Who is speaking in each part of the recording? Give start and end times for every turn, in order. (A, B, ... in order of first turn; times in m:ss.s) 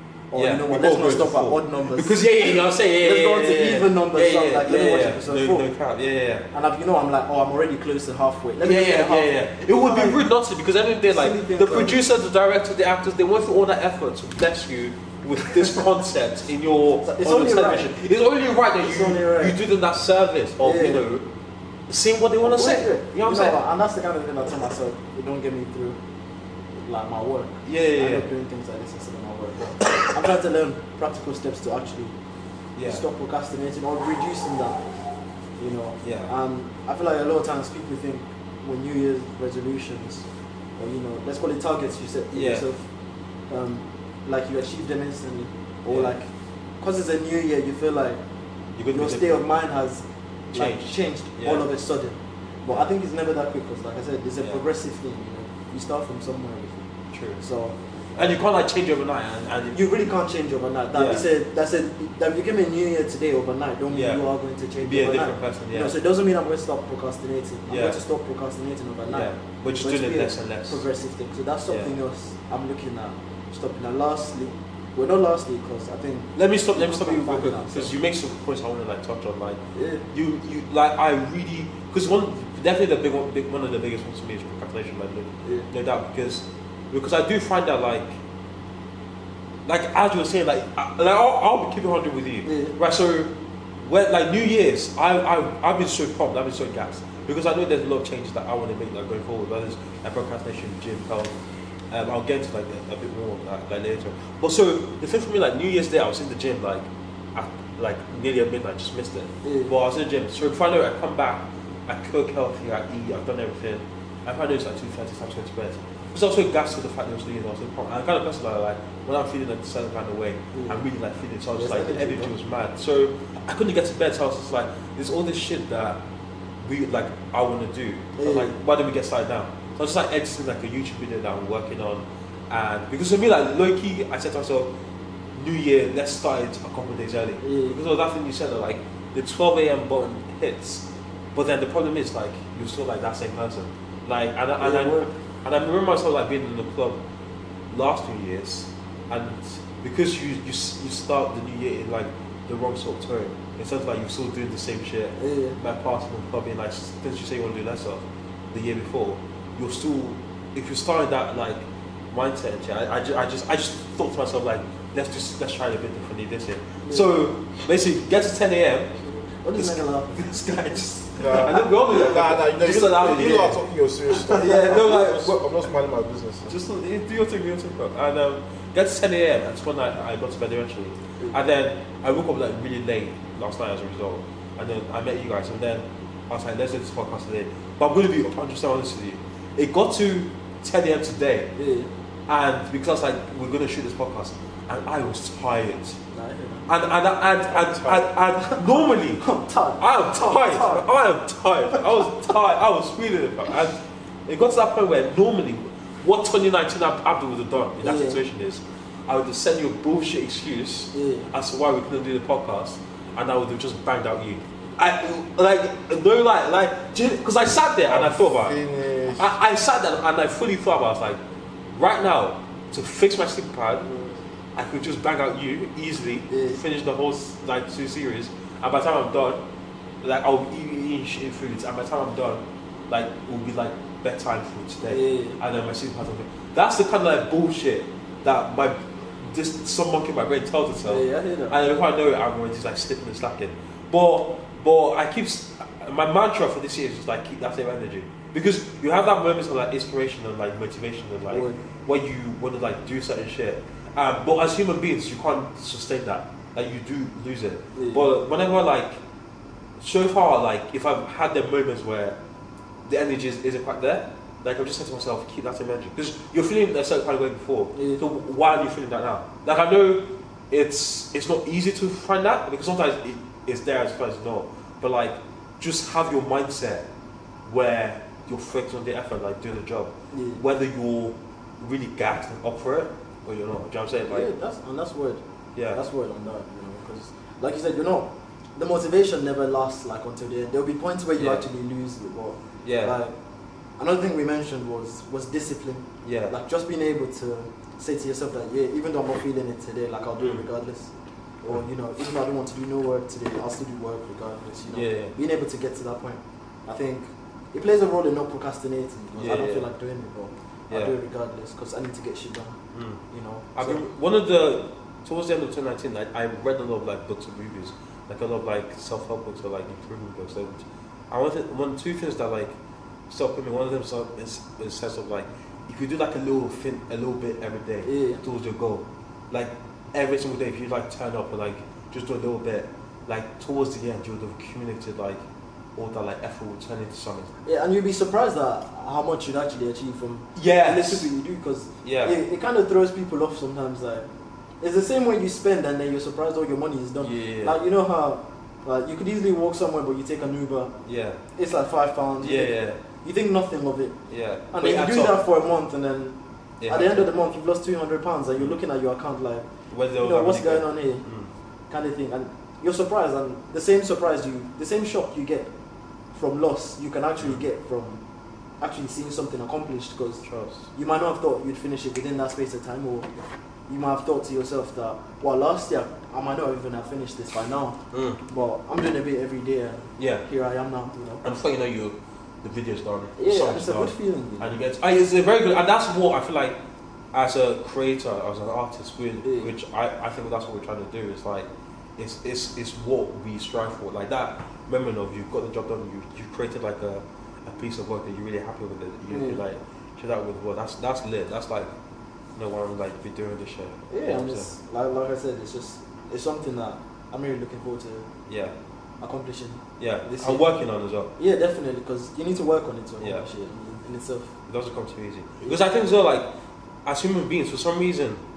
0:00.3-0:05.7 A
0:00.3-0:06.5 B
0:06.5-0:10.2 A
0:08.6-0:21.2 B
0:11.0-0:12.0 A
0:17.0-0:18.0 A
0:18.8-0:19.6 A
0:20.6-0:21.0 A
0:21.9-0:23.6 B
0:22.4-0:26.0 A
0:26.8-0:32.2 A
0:27.6-0:28.3 B
0:32.7-0:33.0 B
0:32.8-0:34.8 A
0:35.6-0:40.2 A
0:36.0-0:36.3 B
0:40.8-0:42.8 A
0:42.3-0:42.6 B
0:43.5-0:46.3 A
0:45.9-0:46.2 B
0:46.8-0:48.2 A
0:48.8-0:49.4 B
0:48.9-0:56.9 A
0:50.5-0:51.6 B
0:57.1-0:57.4 B
0:57.4-0:58.4 A
0:58.2-0:59.8 B
0:59.7-1:17.9 A
1:00.9-1:01.2 B
1:03.9-1:04.2 B
1:04.8-1:06.0 B
1:07.7-1:08.0 B
1:09.1-1:10.8 B
1:16.3-1:28.2 B
1:19.7-1:20.0 A
1:29.6-1:41.3 B
1:32.4-1:32.8 A
1:41.9-2:06.0 B
1:49.4-1:49.7 A
2:00.5-2:00.8 A
2:01.5-2:02.3 A
2:06.6-2:14.7 B
2:08.2-2:08.5 A
2:15.3-2:27.0 B
2:17.4-2:17.8 A
2:24.6-2:25.1 A
2:27.7-2:48.9 B
2:35.2-2:35.6 A
2:46.8-2:47.1 A
2:49.4-2:50.4 A
2:49.6-2:55.7 B
2:51.2-2:56.5 C
2:51.3-2:52.2 A
2:56.5-3:11.5 B
3:11.6-3:11.9 A
3:12.3-3:16.0 B
3:16.1-3:16.7 A
3:16.7-3:19.2 B
3:17.6-3:20.8 A
3:19.8-3:38.6 B
3:21.7-3:22.0 A
3:27.8-3:28.2 A
3:30.9-3:31.3 A
3:37.8-3:39.4 C
3:39.1-3:41.2 B
3:41.7-3:43.9 B
3:44.6-3:49.4 B
3:46.3-3:46.6 A
3:50.0-4:19.0 B
3:54.9-3:55.4 A
4:00.8-4:01.6 A
4:11.3-4:11.6 A
4:17.7-4:18.1 A
4:19.8-4:22.2 B
4:22.8-4:36.9 B
4:27.7-4:28.0 A
4:37.4-4:44.3 B
4:40.1-4:40.4 A
4:44.1-4:45.2 A
4:45.5-4:45.8 B
4:45.7-4:53.1 A
4:51.2-4:51.4 B
4:52.6-4:52.9 B
4:53.8-5:00.9 A
4:56.0-4:56.3 B
5:00.2-5:00.4 B
5:01.4-5:12.6 A
5:04.7-5:05.1 B
5:09.2-5:09.7 B
5:12.7-5:13.0 B
5:13.1-5:13.8 A
5:13.6-5:22.5 B
5:23.1-5:35.2 B
5:27.8-5:28.2 A
5:35.8-5:37.3 B
5:37.4-5:44.1 A
5:40.4-5:41.1 B
5:41.8-5:42.2 B
5:44.6-5:50.7 A
5:47.0-5:47.6 B
5:50.8-5:51.2 B
5:51.3-5:54.0 A
5:52.2-5:52.8 B
5:54.1-5:55.2 B
5:54.5-5:59.5 A
5:56.6-5:57.1 B
5:59.7-6:01.3 B
6:00.0-6:01.0 A
6:01.7-6:05.5 A
6:06.1-6:08.0 A
6:08.6-6:10.2 A
6:10.2-6:10.7 B
6:10.7-6:13.1 A
6:13.7-6:21.2 A
6:17.9-6:18.2 B
6:20.0-6:20.2 B
6:21.2-6:26.6 B
6:23.2-6:24.5 A
6:27.1-6:41.7 B
6:29.2-6:29.5 A
6:39.1-6:39.4 A
6:42.4-6:44.5 B
6:43.9-6:48.1 A
6:48.3-6:48.5 B
6:49.0-6:50.5 A
6:49.8-6:51.1 B
6:51.2-6:54.3 A
6:53.0-6:53.2 B
6:54.5-6:56.3 B
6:56.8-6:58.2 B